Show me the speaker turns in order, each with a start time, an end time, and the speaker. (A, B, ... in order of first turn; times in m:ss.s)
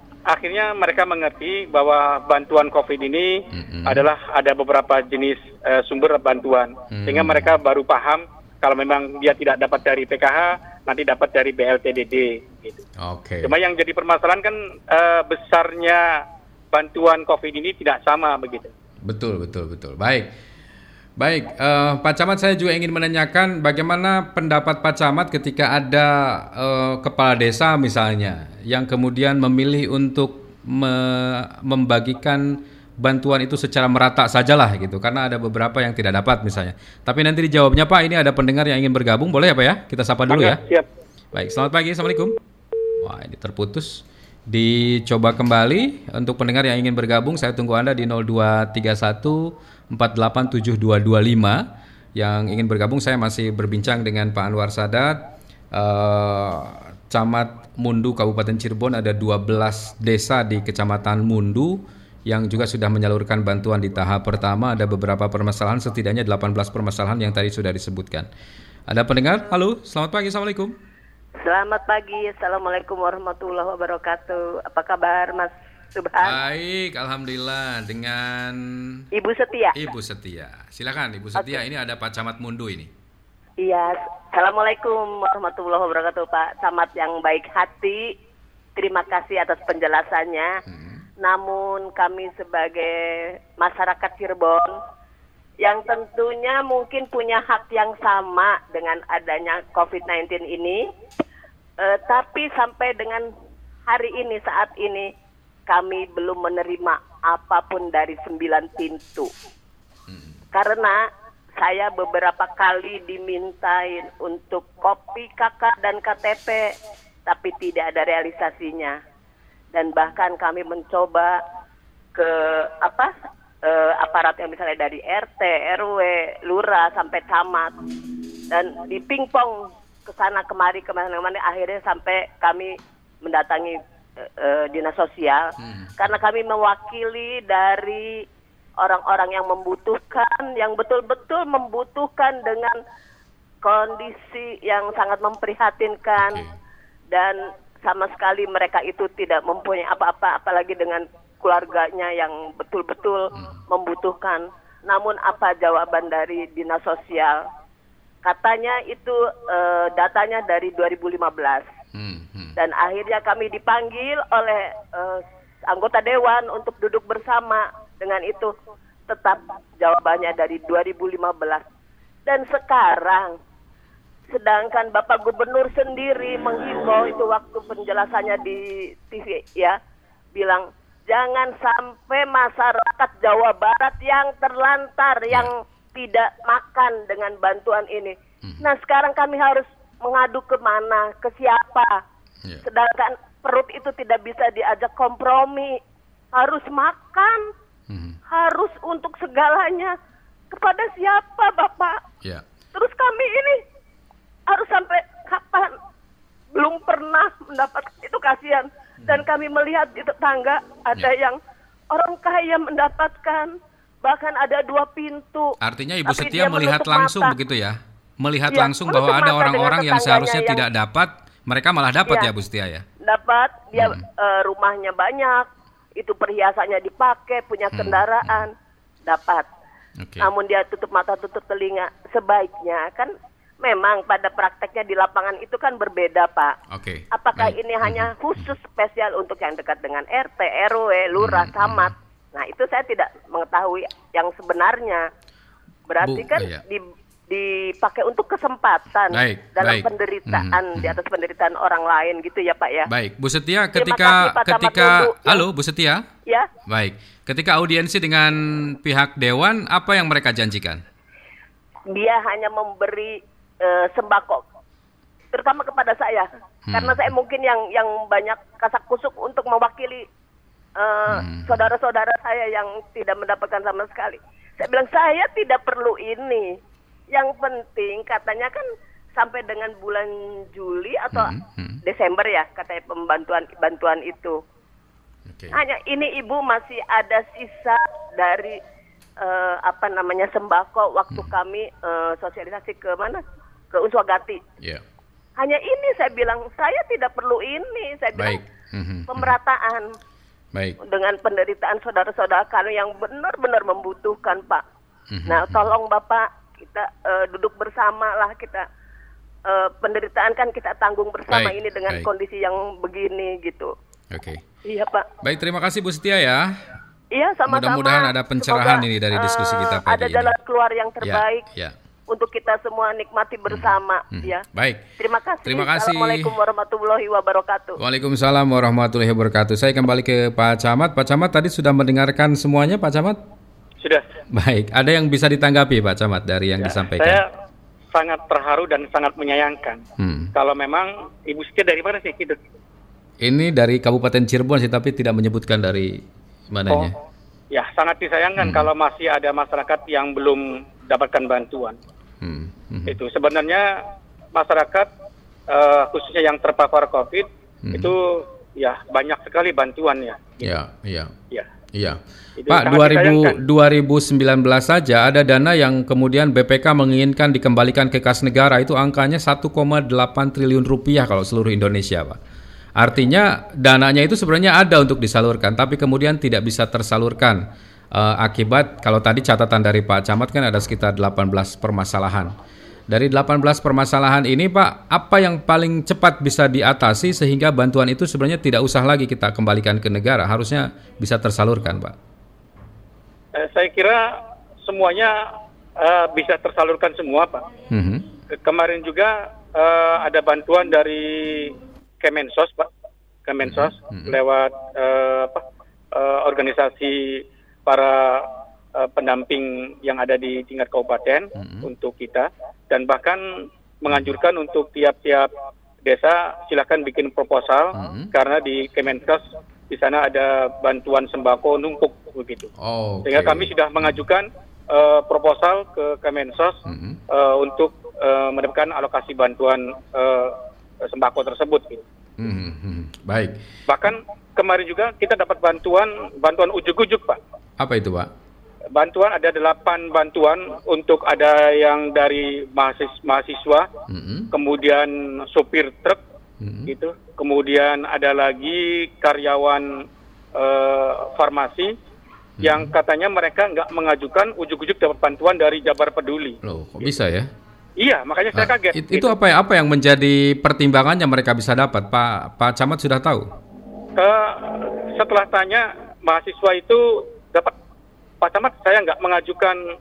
0:00.3-0:12.8 A
0:03.5-0:04.1 B
0:06.9-0:07.6 B
0:13.0-0:13.5 B
0:13.4-0:18.7 A
0:19.0-0:20.3 B
0:21.2-0:40.6 B
0:40.3-0:40.9 A
0:41.3-0:42.4 B
0:43.0-0:51.6 B
0:52.2-1:08.3 B
1:08.9-1:10.8 B
1:11.4-1:16.4 C
1:16.2-1:19.0 B
1:19.1-1:19.8 C
1:19.7-1:22.9 B
1:23.6-1:28.1 C
1:28.8-1:30.6 C
1:30.7-1:31.0 B
1:31.2-1:34.8 C
1:35.6-1:40.8 C
1:41.8-1:43.3 C
1:43.9-1:45.1 C
1:45.7-1:49.3 C
1:50.1-1:50.4 B
1:50.5-1:51.0 C
1:51.6-1:56.7 C
1:57.3-1:59.0 C
1:59.7-2:01.4 C
2:02.2-2:03.1 C
2:03.6-2:07.7 C
2:08.5-2:18.2 C
2:15.6-2:16.2 B
2:18.8-2:22.8 C
2:23.6-2:26.4 C
2:26.2-2:26.6 B
2:27.1-2:37.4 C
2:33.4-2:33.6 B
2:38.2-2:41.7 C
2:41.9-2:42.6 B
2:42.6-2:48.5 C
2:49.1-2:51.6 C
2:52.3-2:53.4 C
2:54.3-2:59.8 C
3:00.4-3:11.9 C
3:12.6-3:15.8 C
3:16.3-3:17.4 C
3:17.9-3:18.2 B
3:18.3-3:20.0 C
3:20.5-3:22.0 C
3:22.8-3:23.6 C
3:24.5-3:25.7 C
3:26.6-3:31.4 C
3:31.9-3:35.6 C
3:35.6-3:42.8 B
3:36.1-3:37.3 C
3:38.5-3:40.6 C
3:43.0-3:45.5 C
3:43.8-3:44.0 B
3:46.0-3:48.5 C
3:47.7-3:48.5 B
3:49.1-3:49.5 C
3:50.0-3:50.3 B
3:50.2-3:56.5 C
3:56.7-3:58.5 B
3:57.1-4:05.0 C
4:01.2-4:02.0 B
4:05.9-4:12.9 C
4:06.0-4:06.6 B
4:09.1-4:11.0 B
4:12.9-4:16.0 B
4:13.8-4:15.4 C
4:16.7-4:20.8 B
4:21.9-4:24.4 C
4:25.3-4:30.0 C
4:26.7-4:27.1 B
4:30.8-4:36.5 C
4:31.1-4:31.7 B
4:37.1-4:38.6 C
4:39.2-4:41.3 C
4:41.1-4:41.8 B
4:41.8-4:44.4 C
4:45.3-4:45.6 B
4:45.5-4:48.6 C
4:49.2-4:53.2 C
4:53.7-4:54.4 C
4:55.4-4:58.4 C
4:58.2-4:59.4 B
4:59.1-4:59.9 C
5:00.8-5:04.6 C
5:05.1-5:05.7 B
5:05.3-5:08.6 C
5:09.5-5:13.7 C
5:11.3-5:12.1 B
5:14.1-5:14.4 B
5:14.7-5:15.1 C
5:15.2-5:16.5 B
5:17.2-5:21.5 C
5:17.5-5:20.3 B
5:21.0-5:21.8 B
5:22.1-5:24.4 C
5:23.5-5:24.8 B
5:25.0-5:27.8 C
5:25.4-5:26.3 B
5:27.8-5:33.2 B
5:34.3-5:37.2 B
5:36.6-5:37.3 A
5:37.9-5:39.8 A
5:40.0-5:40.3 B
5:40.4-5:42.4 A
5:43.2-5:46.9 B
5:47.5-5:51.8 A
5:48.4-5:48.7 B
5:52.2-5:53.0 B
5:52.9-5:53.7 A
5:54.3-5:54.9 A
5:55.5-6:00.6 A
5:57.6-5:57.9 B
6:00.4-6:01.1 B
6:01.7-6:12.2 B
6:02.4-6:03.4 A
6:12.8-6:17.4 B
6:17.9-6:22.3 B
6:22.9-6:32.0 B
6:33.4-6:37.4 A
6:37.7-6:38.0 B
6:38.3-6:42.7 A
6:43.3-6:55.3 A
6:43.4-6:44.2 B
6:51.4-6:51.7 B
6:53.9-6:54.2 B
6:55.8-7:02.5 A
6:57.7-6:58.1 B
7:02.6-7:04.0 B
7:03.0-7:06.6 A
7:06.6-7:07.0 B
7:07.1-7:11.8 A
7:12.2-7:13.4 B
7:13.7-7:17.2 A
7:17.6-7:18.1 B
7:18.8-7:23.7 A
7:23.9-7:24.3 B
7:24.3-7:26.0 A
7:26.4-7:26.7 B
7:26.7-7:29.7 A
7:30.4-7:31.7 A
7:32.4-7:32.7 B
7:32.4-7:36.4 A
7:36.4-7:37.3 B
7:37.8-7:39.1 A
7:38.3-7:43.3 B
7:44.0-7:47.6 A
7:48.2-7:49.6 A